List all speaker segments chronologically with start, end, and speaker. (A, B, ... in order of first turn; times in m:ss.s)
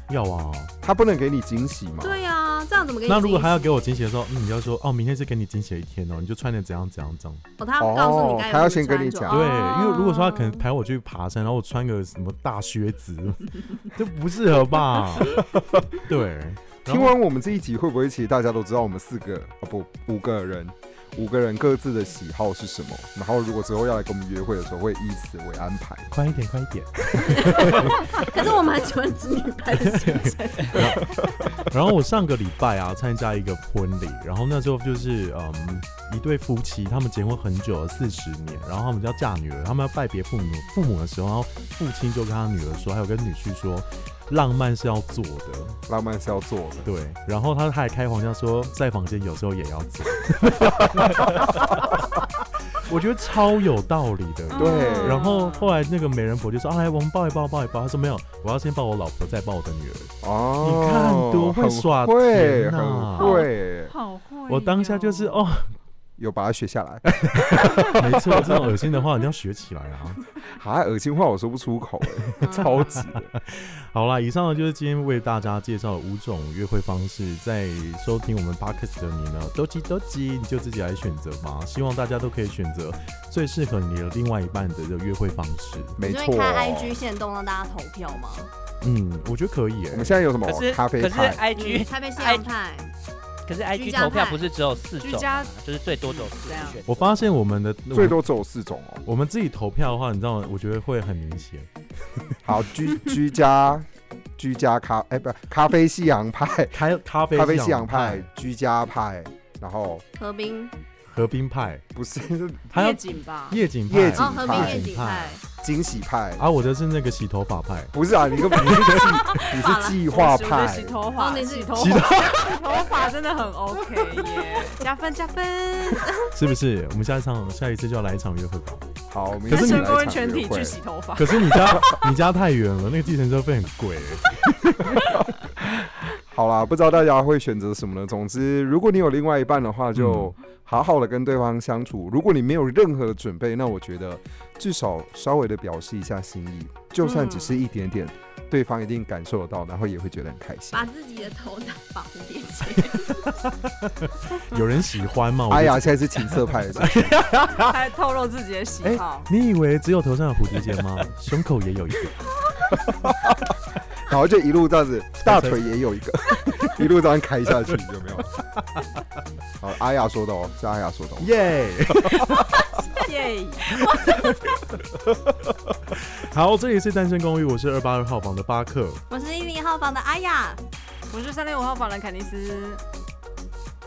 0:00.1-0:00.7 A
0:00.8-0:02.2 B
0:02.0-0:03.8 C
0:03.1-0:07.4 A
0:07.6-0:10.6 C
0:07.8-0:09.5 B
0:09.3-0:17.1 A
0:16.9-0:26.1 B
0:26.1-0:28.1 A
0:27.3-0:31.2 C
0:29.7-0:45.8 A
0:45.9-0:46.9 B
0:46.8-1:03.4 A
0:54.5-0:55.7 D
0:54.5-0:55.3 B
1:00.2-1:03.9 B
1:03.2-1:05.5 D
1:04.5-1:05.7 A
1:06.2-1:08.8 B
1:07.1-1:10.2 A
1:10.4-1:13.3 B
1:12.4-1:12.9 C
1:13.2-1:26.0 A
1:26.0-1:27.0 B
1:26.0-1:28.5 C
1:28.8-1:30.2 A
1:29.9-1:31.4 B
1:30.4-1:32.4 E
1:31.6-1:32.9 C
1:33.5-1:37.3 E
1:33.7-1:34.4 C
1:35.0-1:35.5 D
1:36.1-1:36.8 D
1:36.9-1:38.2 A
1:37.9-1:39.0 B
1:39.0-1:42.4 A
1:42.4-1:46.8 B
1:46.7-1:48.3 A
1:47.3-1:50.0 B
1:50.2-1:50.7 C
1:51.0-1:51.8 A
1:52.0-1:52.7 B
1:52.7-1:55.4 A
1:52.7-1:53.6 D
1:53.9-1:54.9 B
1:54.2-1:55.4 C
1:55.6-1:56.4 B
1:56.4-1:57.9 A
1:57.9-2:01.0 B
1:58.5-1:59.4 A
1:58.7-2:00.0 C
2:00.1-2:06.3 D
2:01.1-2:02.1 C
2:01.8-2:02.6 A
2:06.3-2:08.9 A
2:09.1-2:10.8 B
2:09.5-2:11.9 D
2:09.5-2:10.0 A
2:11.2-2:15.2 A
2:15.6-2:30.9 B
2:20.0-2:20.3 A
2:27.0-2:27.6 C
2:30.7-2:33.4 C
2:33.4-2:37.8 A
2:35.5-2:37.2 B
2:37.6-2:39.3 D
2:38.8-2:42.2 A
2:42.9-2:43.4 B
2:44.0-2:48.3 B
2:45.2-2:45.7 A
2:46.5-2:46.8 A
2:49.6-2:51.3 B
2:51.2-2:52.5 A
2:53.0-2:53.7 D
2:53.6-2:54.5 C
2:55.9-2:59.0 A
2:59.1-3:00.6 C
3:01.1-3:02.8 D